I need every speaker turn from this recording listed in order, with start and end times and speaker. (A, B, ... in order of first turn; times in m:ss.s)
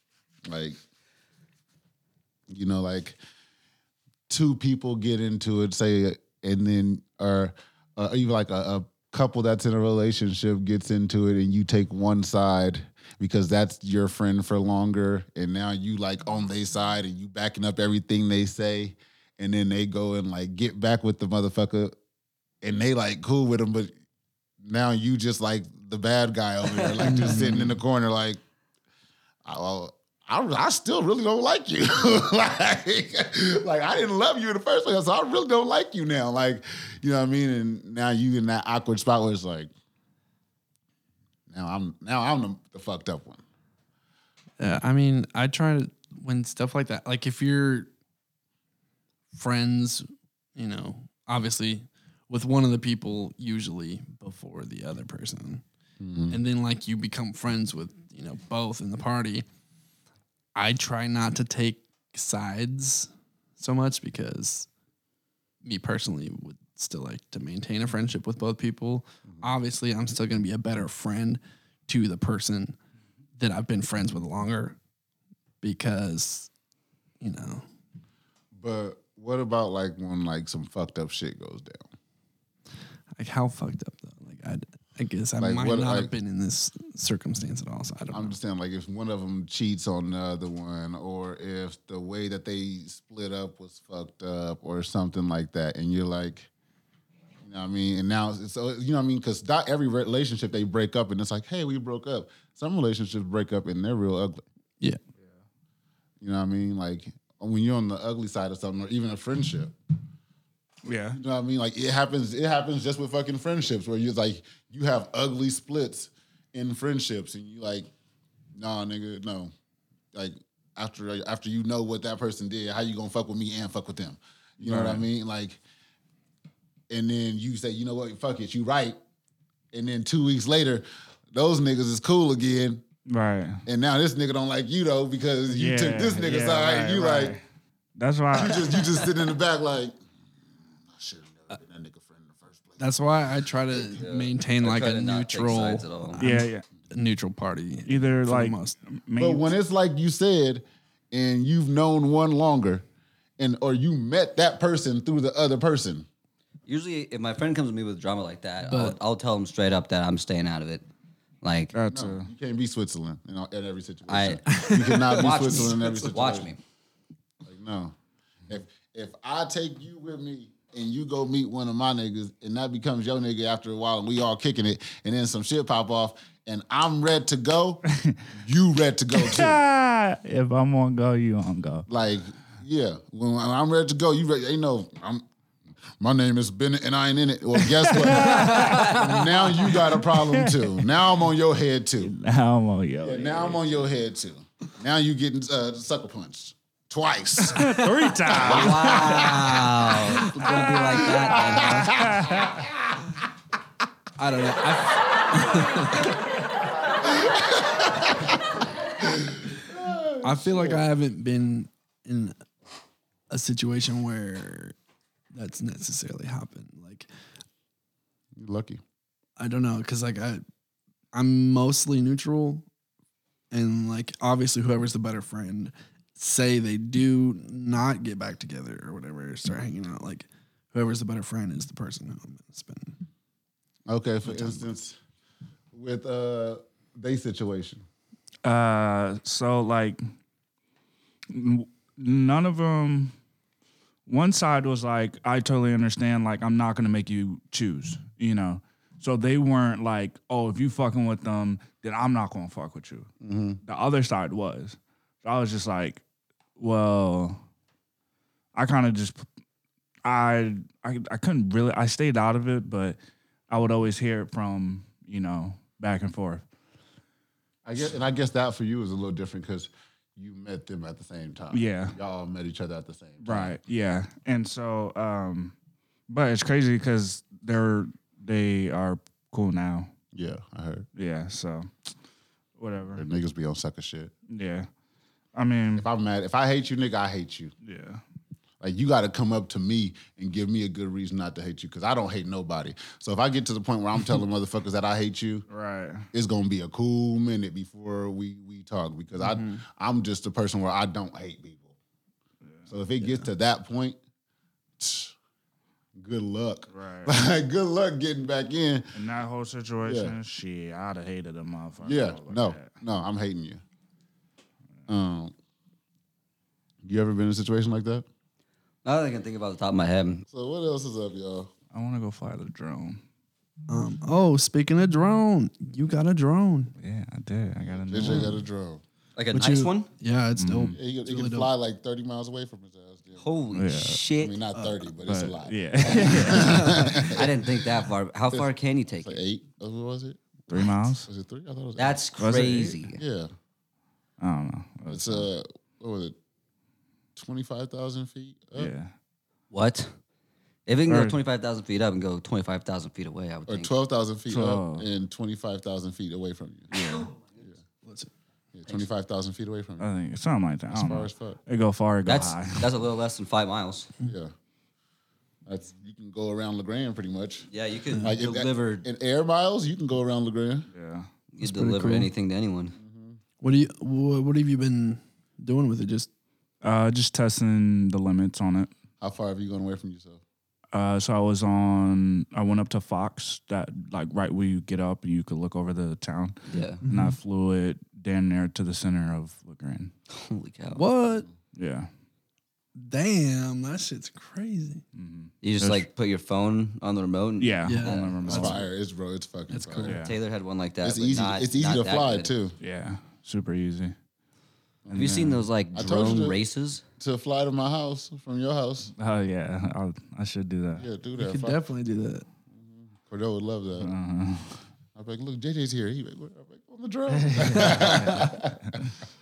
0:00.5-0:00.8 A
0:02.5-0:03.2 A
0:04.3-0:22.0 A
0:22.6-0:23.9 A
0:24.6-0:28.4 A
0:26.7-0:27.3 B
0:27.0-0:27.8 C
0:29.4-0:39.7 A
0:41.5-0:43.4 A
0:44.6-0:47.9 C
0:49.3-0:55.6 C
0:56.0-0:56.4 A
0:56.3-0:59.4 C
1:00.6-1:04.7 C
1:05.6-1:12.8 C
1:09.3-1:09.5 A
1:13.4-1:14.8 C
1:15.6-1:16.5 C
1:17.2-1:17.6 C
1:18.6-1:21.8 A
1:23.2-1:28.4 C
1:25.4-1:26.1 A
1:28.1-1:36.5 A
1:37.4-1:44.4 A
1:46.2-1:49.8 A
1:50.8-1:51.2 D
1:51.1-1:57.9 A
1:58.6-1:59.5 A
2:00.1-2:05.6 A
2:04.6-2:05.0 D
2:06.9-2:09.0 A
2:09.7-2:12.8 A
2:13.1-2:13.6 D
2:13.7-2:17.4 A
2:15.5-2:17.4 D
2:18.0-2:19.0 D
2:18.3-2:20.0 A
2:21.0-2:22.9 A
2:22.8-2:28.8 C
2:23.7-2:26.3 B
2:26.2-2:26.6 D
2:27.9-2:29.5 D
2:29.2-2:32.8 A
2:33.4-2:36.1 A
2:36.7-2:40.8 B
2:38.6-2:39.0 C
2:41.4-2:41.7 B
2:41.7-2:42.3 D
2:41.9-2:46.5 A
2:44.1-2:46.6 B
2:44.5-2:46.0 C
2:47.4-2:48.0 A
2:48.5-2:57.8 A
2:57.9-2:58.2 D
2:58.4-2:59.6 A
2:59.1-3:01.9 D
3:01.9-3:05.2 A
3:06.0-3:12.1 A
3:07.6-3:09.1 D
3:08.2-3:09.3 B
3:09.8-3:10.9 D
3:12.0-3:13.9 D
3:13.0-3:19.6 A
3:17.4-3:19.7 D
3:18.4-3:22.0 B
3:20.3-3:22.7 D
3:20.9-3:22.5 A
3:24.2-3:26.1 C
3:27.0-3:28.4 A
3:29.1-3:30.8 A
3:30.2-3:32.4 C
3:33.3-3:34.8 C
3:35.3-3:37.1 C
3:38.4-3:38.8 A
3:39.4-3:40.4 C
3:41.1-3:42.7 C
3:43.5-3:53.0 C
3:53.9-3:55.0 A
3:55.7-3:57.8 A
3:58.4-4:00.0 D
4:01.3-4:03.1 D
4:04.1-4:13.1 D
4:13.2-4:13.6 A
4:13.6-4:16.0 D
4:16.6-4:17.4 D
4:18.5-4:19.3 D
4:20.0-4:23.0 D
4:23.5-4:26.4 D
4:27.6-4:33.6 A
4:31.5-4:32.0 D
4:33.2-4:35.6 D
4:36.1-4:39.9 D
4:40.1-4:40.9 A
4:41.0-4:41.7 D
4:42.6-4:43.0 D
4:43.0-4:44.1 A
4:44.3-4:44.7 D
4:45.3-4:45.9 D
4:45.8-4:47.5 A
4:47.6-4:48.0 D
4:48.6-4:55.5 A
4:55.5-4:56.1 D
4:56.1-5:01.7 A
4:59.2-4:59.6 C
5:02.5-5:02.7 D
5:02.7-5:04.0 A
5:03.0-5:03.3 C
5:04.8-5:05.1 A
5:06.0-5:09.0 A
5:06.7-5:07.1 D
5:08.9-5:12.8 D
5:09.8-5:10.2 A
5:11.8-5:13.6 A
5:14.9-5:15.3 A
5:16.8-5:18.0 A
5:18.8-5:20.2 B
5:20.3-5:21.5 A
5:21.7-5:23.0 D
5:23.7-5:26.7 C
5:26.8-5:28.4 D
5:27.9-5:28.8 A
5:28.0-5:28.4 C
5:29.2-5:29.9 B
5:29.3-5:31.5 C
5:30.4-5:30.8 D
5:30.7-5:33.2 A
5:33.2-5:34.4 B
5:33.5-5:34.0 D
5:34.2-5:37.3 A
5:34.6-5:34.8 C
5:35.0-5:37.3 D
5:37.0-5:39.2 B
5:39.0-5:42.0 A
5:40.5-5:41.1 D
5:41.8-5:43.0 B
5:42.2-5:42.8 D
5:42.9-5:43.3 A
5:44.2-5:45.3 D
5:44.9-5:46.2 A
5:47.2-5:48.7 A
5:48.6-5:48.9 D
5:49.5-5:49.9 B
5:50.7-5:53.7 B
5:50.9-5:51.2 D
5:53.5-5:56.7 A
5:54.3-5:54.9 D
5:56.7-5:57.1 D
5:56.8-5:57.2 B
5:57.8-5:58.1 C
5:58.6-5:59.9 A
5:59.8-6:02.7 D
6:00.7-6:01.4 A
6:02.1-6:03.9 B
6:04.0-6:04.3 A
6:05.5-6:07.5 A
6:07.5-6:08.8 B
6:08.0-6:10.7 A
6:10.7-6:11.1 D
6:11.4-6:12.8 B
6:11.4-6:12.1 C
6:12.8-6:13.2 A
6:13.4-6:16.1 C
6:16.6-6:18.7 D
6:19.0-6:20.2 A
6:20.7-6:29.9 D
6:26.5-6:26.8 B
6:26.8-6:27.2 C
6:30.1-6:30.8 B
6:30.7-6:31.3 C
6:31.5-6:31.9 D
6:32.8-6:34.8 C
6:35.0-6:35.9 D
6:35.4-6:38.6 B
6:37.4-6:38.6 D
6:37.6-6:38.5 C
6:38.2-6:40.0 A
6:39.5-6:40.0 C
6:39.8-6:42.3 B
6:39.9-6:40.2 D
6:40.8-6:42.6 A
6:42.6-6:44.0 D
6:44.9-6:46.4 A
6:44.9-6:45.4 D
6:44.9-6:46.8 B
6:47.0-6:48.9 A
6:49.0-6:50.9 D
6:50.8-6:51.6 A
6:51.2-6:52.3 C
6:52.6-6:53.9 A
6:53.8-6:54.6 D
6:55.0-6:58.8 A
6:57.3-6:58.9 D